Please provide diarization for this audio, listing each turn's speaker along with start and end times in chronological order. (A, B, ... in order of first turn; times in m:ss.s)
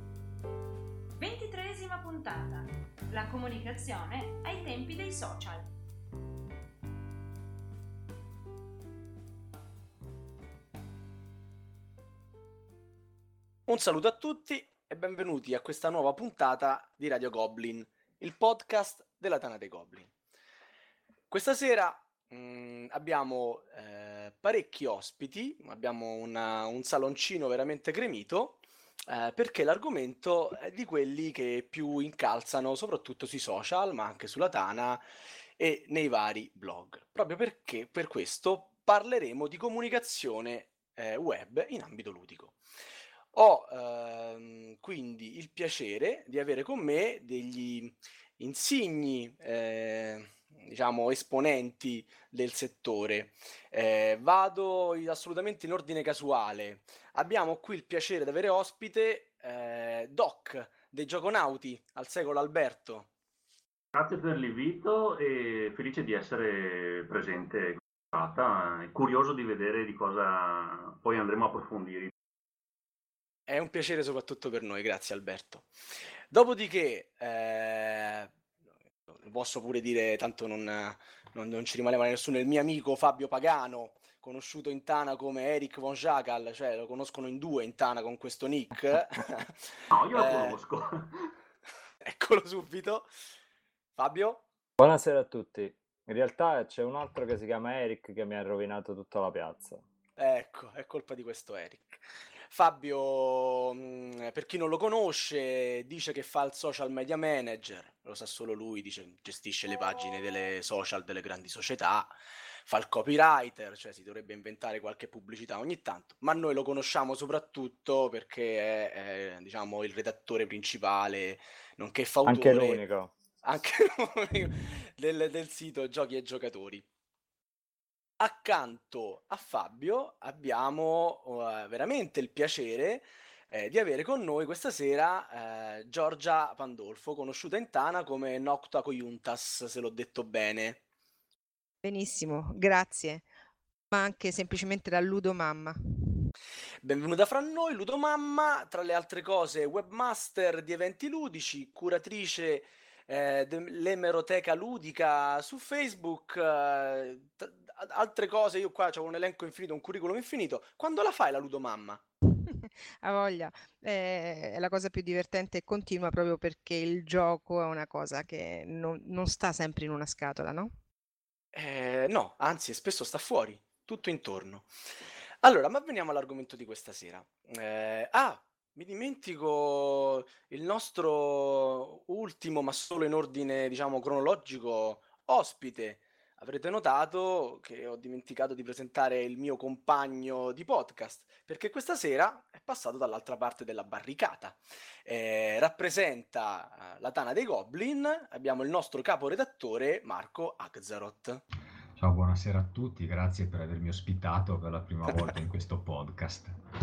0:01.2-0:05.7 A
0:13.7-0:20.1 B
0:21.3-0:35.0 B
0:35.6-0:42.6 B
0:43.3-1:03.1 B
1:03.9-1:12.1 C
1:13.5-1:15.7 B
1:16.3-1:18.3 B
1:19.1-1:30.6 B
1:29.9-1:31.1 C
1:32.0-1:33.1 B
1:34.0-1:34.4 B
1:34.8-1:39.8 D
1:40.2-2:02.8 B
2:02.2-2:03.1 D
2:03.4-2:06.8 B
2:08.2-2:20.8 B
2:21.8-2:23.3 E
2:23.9-2:26.2 E
2:26.8-2:42.0 B
2:42.2-2:50.8 E
2:51.5-2:54.7 B
2:55.4-3:21.4 B
3:22.0-3:26.6 F